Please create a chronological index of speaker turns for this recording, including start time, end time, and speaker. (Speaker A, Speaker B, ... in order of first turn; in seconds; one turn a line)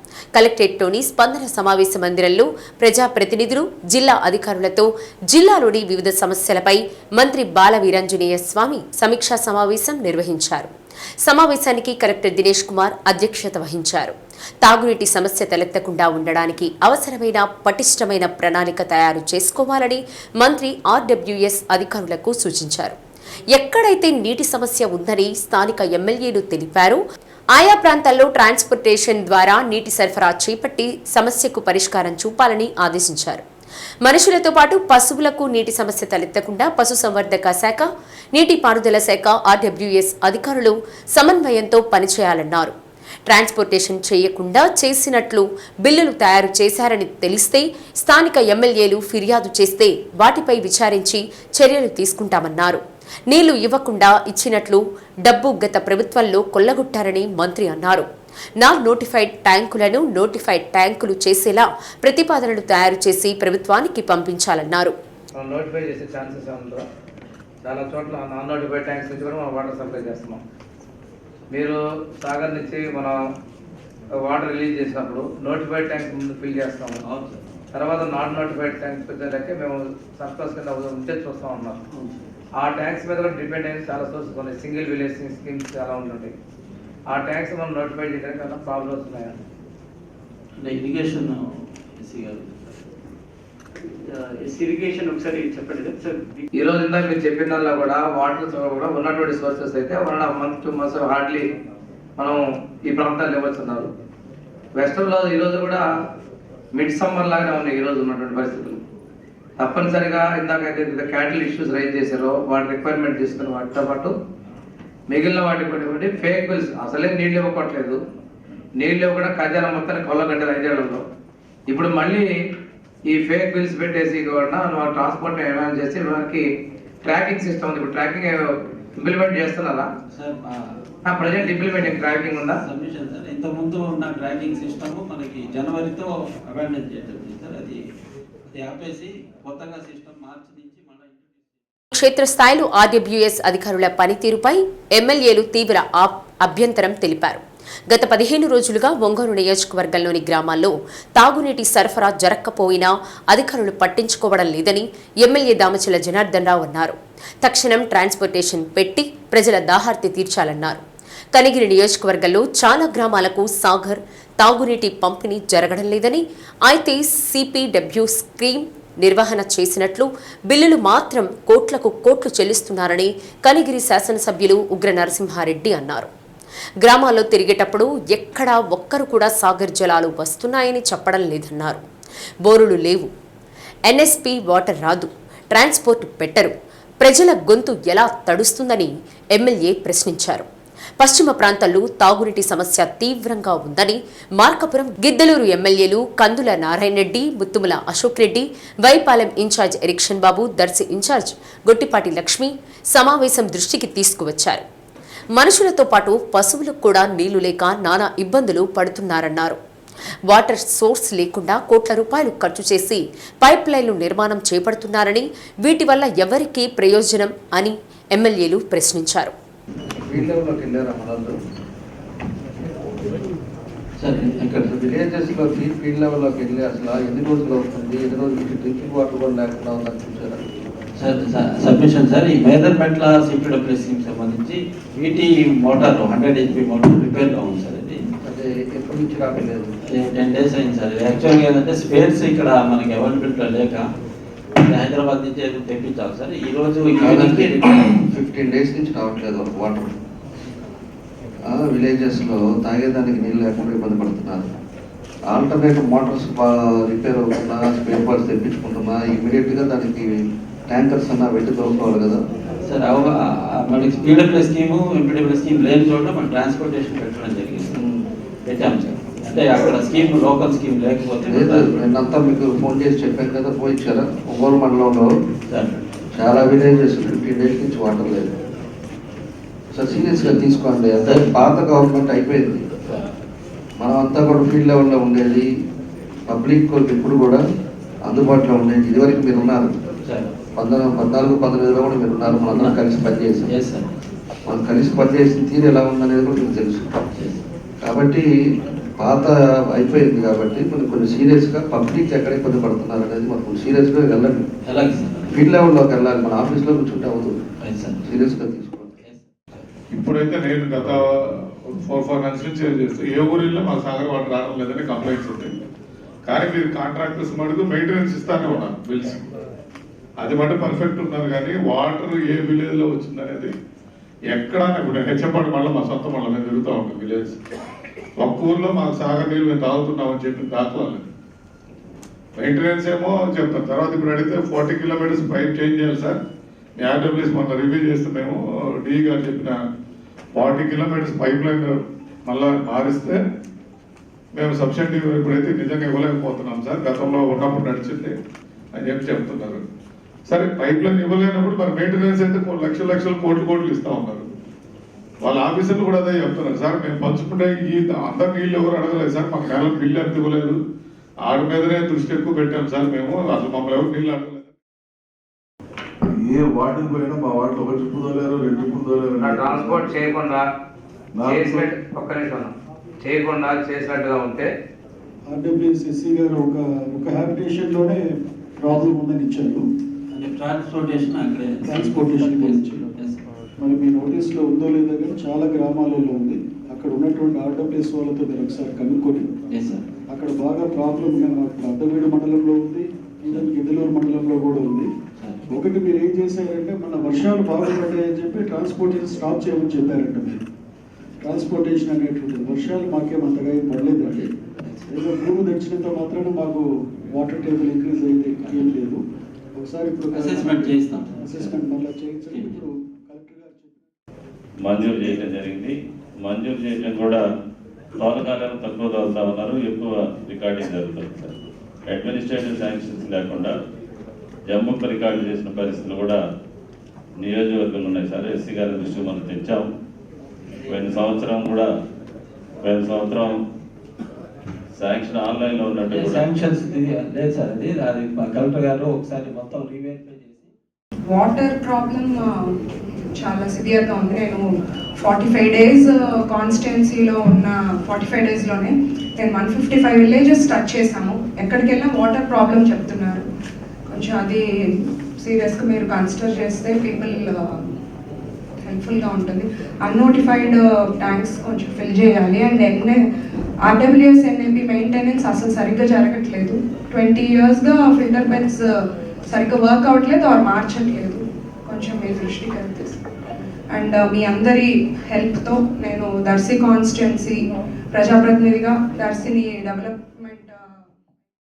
Speaker A: 0.3-10.7
Speaker A: 11.2-23.0
Speaker A: 23.5-27.0
Speaker A: 27.5-33.4
Speaker A: 34.0-42.7
Speaker A: 43.3-58.1
Speaker A: 58.6-64.9
Speaker B: 65.4-66.8
Speaker B: 67.6-70.4
Speaker B: 71.5-73.2
Speaker B: 74.2-77.0
Speaker C: 77.0-77.4
Speaker B: 77.7-81.8
Speaker B: 82.6-86.3
Speaker B: 87.1-89.3
Speaker C: 90.6-91.4
Speaker C: 92.0-92.7
Speaker C: 94.0-96.4
Speaker B: 96.5-101.4
Speaker B: 102.2-103.9
Speaker B: 104.8-105.8
Speaker B: 106.7-108.8
Speaker B: 109.6-114.1
Speaker B: 115.1-118.0
Speaker B: 118.8-121.0
Speaker B: 121.7-122.3
Speaker B: 123.1-126.4
Speaker B: 127.0-128.5
Speaker B: 129.0-129.9
Speaker C: 130.1-130.6
Speaker B: 131.1-132.6
Speaker C: 131.4-131.9
Speaker C: 132.6-137.8
Speaker C: 138.5-141.5
Speaker A: 141.9-160.8
Speaker A: 161.3-176.1
Speaker A: 176.8-181.8
Speaker A: 182.4-183.1
Speaker A: 183.9-190.4
Speaker A: 191.0-204.6
Speaker A: 205.3-209.6
Speaker A: 210.3-219.3
Speaker D: 220.0-221.3
Speaker C: 224.0-224.4
Speaker D: 224.1-230.5
Speaker C: 231.0-238.0
Speaker D: 238.2-239.7
Speaker C: 239.9-243.8
Speaker C: 244.7-248.0
Speaker D: 246.9-249.9
Speaker D: 251.4-254.5
Speaker D: 255.3-260.1
Speaker D: 260.7-262.2
Speaker C: 262.6-267.8
Speaker C: 268.5-271.6
Speaker D: 271.3-275.1
Speaker C: 275.5-275.8
Speaker D: 276.1-278.3
Speaker D: 279.7-282.6
Speaker C: 280.1-280.4
Speaker C: 281.0-281.3
Speaker D: 283.8-285.5
Speaker D: 286.3-287.4
Speaker D: 288.1-289.7
Speaker C: 290.1-290.3
Speaker D: 290.6-293.5
Speaker C: 292.4-292.8
Speaker C: 293.4-293.9
Speaker D: 294.5-297.0
Speaker C: 297.1-297.4
Speaker D: 297.8-298.3
Speaker D: 299.0-304.5
Speaker C: 304.7-305.3
Speaker D: 305.3-307.3
Speaker C: 307.6-308.0
Speaker D: 308.1-308.9
Speaker C: 309.0-309.6
Speaker E: 309.9-315.5
Speaker E: 316.2-319.2
Speaker E: 320.2-323.5
Speaker E: 324.3-327.4
Speaker E: 328.2-331.1
Speaker E: 332.4-336.2
Speaker E: 336.8-339.6
Speaker E: 340.3-341.7
Speaker E: 342.2-343.2
Speaker E: 344.3-348.1
Speaker E: 348.7-349.6
Speaker E: 350.3-354.3
Speaker E: 355.2-360.6
Speaker E: 361.2-364.5
Speaker F: 366.0-369.9
Speaker B: 369.2-370.4
Speaker F: 371.2-371.6
Speaker B: 371.2-374.5
Speaker G: 375.3-378.0
Speaker G: 378.6-379.6
Speaker C: 380.1-383.2
Speaker G: 381.6-382.8
Speaker G: 383.6-389.3
Speaker C: 389.5-389.8
Speaker G: 390.1-394.9
Speaker C: 395.2-395.5
Speaker G: 395.5-400.4
Speaker G: 401.2-404.2
Speaker C: 404.1-404.9
Speaker G: 404.9-409.0
Speaker C: 408.4-408.7
Speaker G: 409.6-413.9
Speaker C: 410.1-411.6
Speaker C: 412.3-412.6
Speaker H: 414.6-417.2
Speaker H: 418.0-421.4
Speaker H: 421.9-423.5
Speaker H: 424.5-426.2
Speaker H: 427.2-429.7
Speaker C: 430.6-430.9
Speaker H: 430.7-431.7
Speaker H: 432.6-433.4
Speaker H: 434.8-436.3
Speaker C: 435.9-440.5
Speaker I: 441.1-444.4
Speaker I: 445.0-453.2
Speaker I: 453.9-457.7
Speaker I: 458.6-463.0
Speaker I: 463.6-468.8
Speaker I: 469.3-473.0
Speaker I: 473.7-480.9